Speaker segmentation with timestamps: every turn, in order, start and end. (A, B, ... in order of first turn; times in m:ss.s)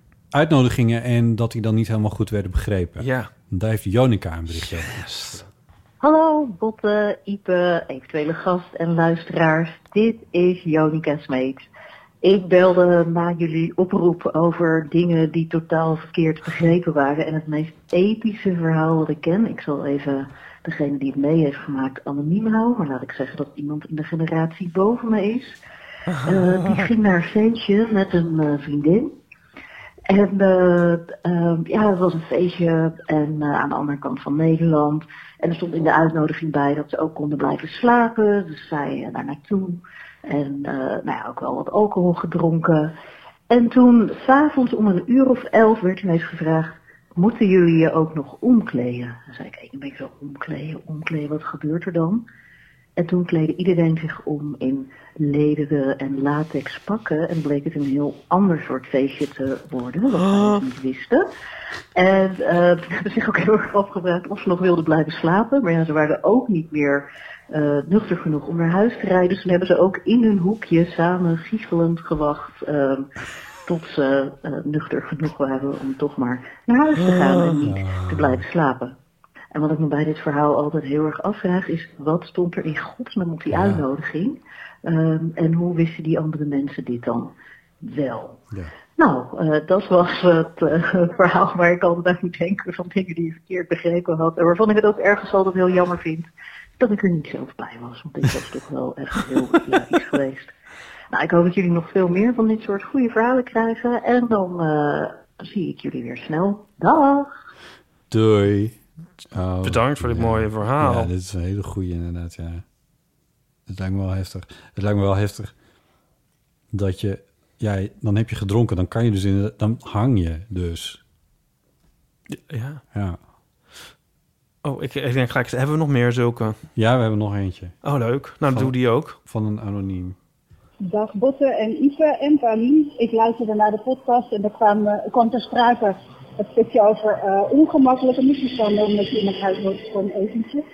0:00.3-0:05.4 A
0:03.0-0:03.3 B
0:04.6-0:05.4 B
0:06.0-0:11.6 C
0:12.2-0:25.6 C
0:26.2-0:29.1 C
0:30.1-0:42.9 C
0:43.5-0:52.2 C
0:53.0-1:01.3 C
1:01.9-1:13.1 C
1:13.6-1:19.0 C
1:17.6-1:18.4 A
1:19.5-1:36.3 C
1:23.5-1:23.8 A
1:36.8-1:40.5 C
1:41.1-1:47.3 C
1:48.1-1:48.8 A
1:49.3-1:52.6 A
1:49.6-1:51.1 B
1:53.7-1:55.5 A
1:56.7-2:01.0 A
2:02.3-2:02.8 B
2:02.9-2:03.2 A
2:04.6-2:06.6 B
2:06.8-2:07.8 A
2:07.8-2:09.2 B
2:08.4-2:10.2 A
2:10.8-2:20.6 D